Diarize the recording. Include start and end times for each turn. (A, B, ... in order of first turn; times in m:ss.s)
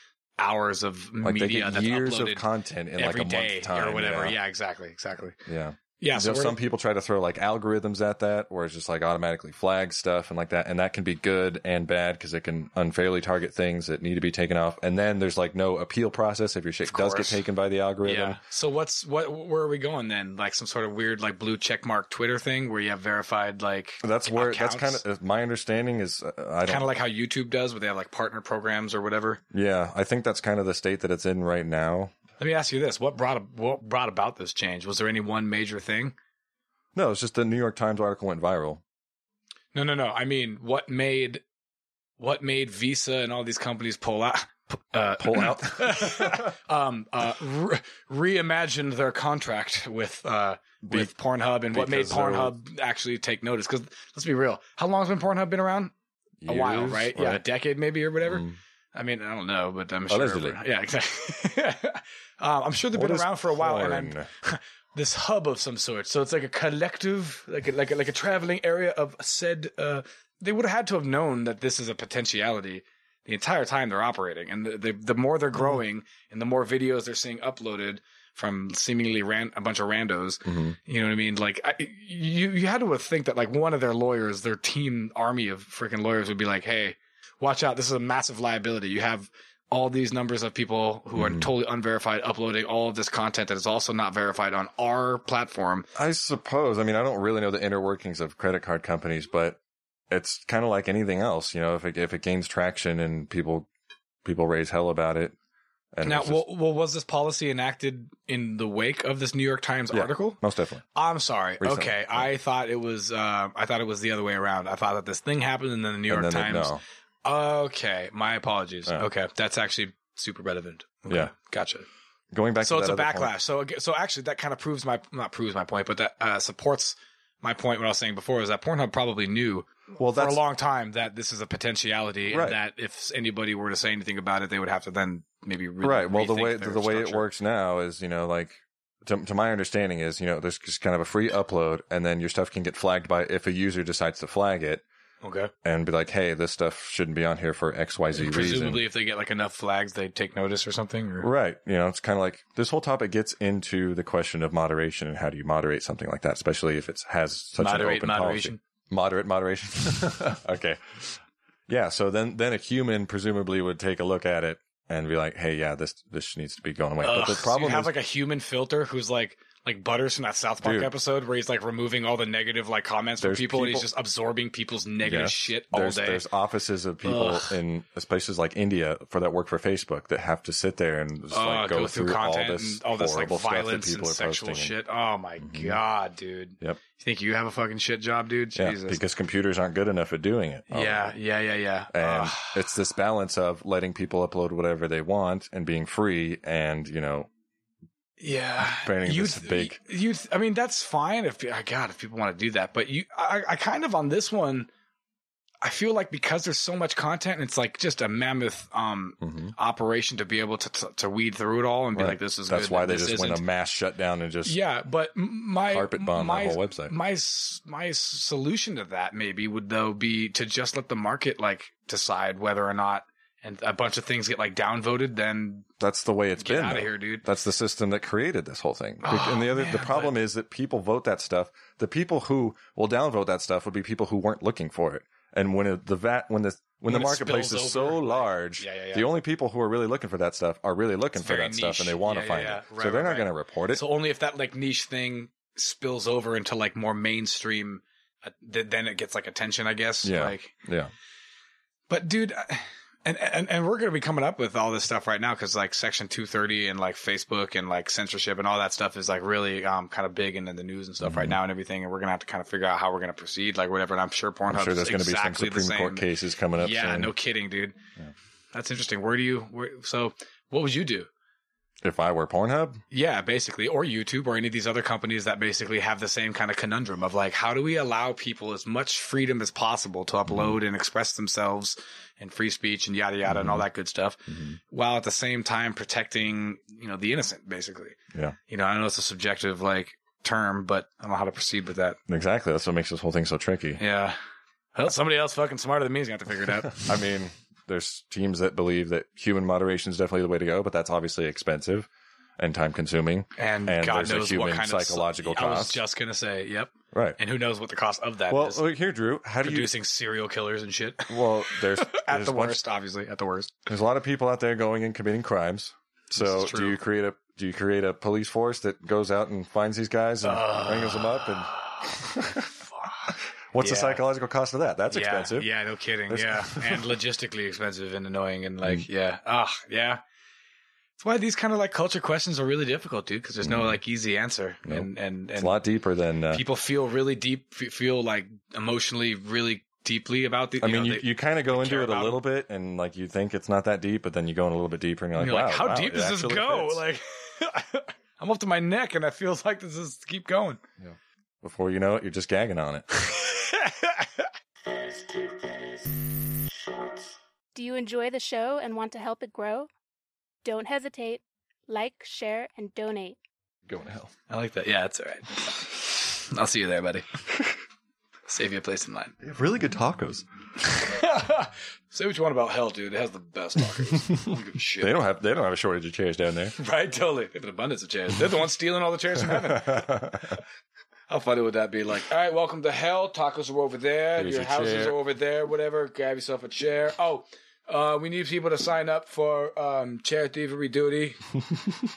0:00.4-0:05.4 A
0:01.2-0:04.4 B
0:05.5-0:18.4 B
0:06.0-0:06.6 A
0:16.9-0:17.4 A
0:18.0-0:25.0 A
0:24.0-0:26.9 B
0:26.6-0:29.4 A
0:29.5-0:32.2 B
0:32.4-0:36.2 A
0:37.0-0:38.8 B
0:39.7-0:41.4 A
0:42.2-0:55.9 A
0:45.2-0:46.5 B
0:50.9-0:51.1 B
0:51.7-0:52.6 B
0:56.4-0:57.4 B
0:56.5-1:35.9 A
0:58.2-0:58.6 B
1:00.1-1:00.6 B
1:02.9-1:04.3 B
1:20.4-1:20.8 B
1:31.2-1:31.5 B
1:36.0-1:43.7 B
1:44.2-1:45.3 B
1:45.9-1:46.4 B
1:46.0-1:50.4 A
1:49.9-1:50.8 B
1:50.9-2:01.9 A
1:51.6-1:52.3 B
1:56.1-1:56.8 B
2:02.3-2:03.4 B
2:02.6-2:17.3 A
2:10.0-2:10.4 B
2:12.3-2:12.6 B
2:15.8-2:24.8 B
2:25.2-2:25.5 A
2:25.6-2:28.8 B
2:28.2-2:31.3 A
2:31.2-2:48.0 B
2:37.6-2:38.6 A
2:47.0-2:56.3 A
2:50.6-2:50.9 B
2:53.2-2:53.9 B
2:55.0-3:04.8 B
2:57.0-2:57.6 A
3:01.3-3:09.0 A
3:05.4-3:05.8 B
3:08.6-3:11.1 B
3:10.7-3:12.8 A
3:11.9-3:17.3 B
3:18.2-3:24.7 A
3:18.6-3:19.8 B
3:25.6-3:33.4 A
3:29.2-3:29.5 B
3:32.0-3:34.6 B
3:34.4-3:45.7 A
3:35.7-3:36.9 B
3:45.8-4:03.8 B
3:46.4-3:47.3 A
3:49.0-3:50.2 A
3:56.9-3:59.1 A
4:01.2-4:10.5 A
4:10.0-4:10.9 B
4:11.9-4:27.8 A
4:21.0-4:21.4 B
4:24.5-4:27.1 B
4:28.5-4:31.1 A
4:31.8-4:32.8 B
4:32.9-4:52.0 A
4:40.3-4:40.6 B
4:43.3-4:43.6 B
4:44.3-4:44.6 B
4:52.1-4:53.8 B
4:53.8-4:54.2 A
4:54.8-4:57.0 A
4:56.8-5:05.8 B
5:03.4-5:08.6 A
5:06.9-5:07.2 B
5:08.3-5:09.7 B
5:09.4-5:13.7 A
5:11.1-5:12.6 B
5:13.7-5:22.4 B
5:16.2-5:16.8 A
5:20.2-5:24.0 A
5:23.5-5:25.5 B
5:24.9-5:30.0 A
5:26.1-5:26.9 B
5:31.0-5:35.6 A
5:33.4-5:33.8 B
5:34.7-5:36.4 B
5:36.3-5:42.2 A
5:40.6-5:46.8 B
5:45.2-5:50.6 A
5:50.8-5:52.9 B
5:53.0-5:54.3 A
5:57.6-5:59.7 C
6:00.4-6:03.2 C
6:03.7-6:04.1 B
6:04.3-6:07.2 A
6:08.3-6:09.2 A
6:09.2-6:10.2 B
6:10.6-6:15.0 A
6:14.8-6:16.6 B
6:16.6-6:20.4 A
6:19.7-6:20.2 B
6:21.1-6:31.2 A
6:24.2-6:25.0 B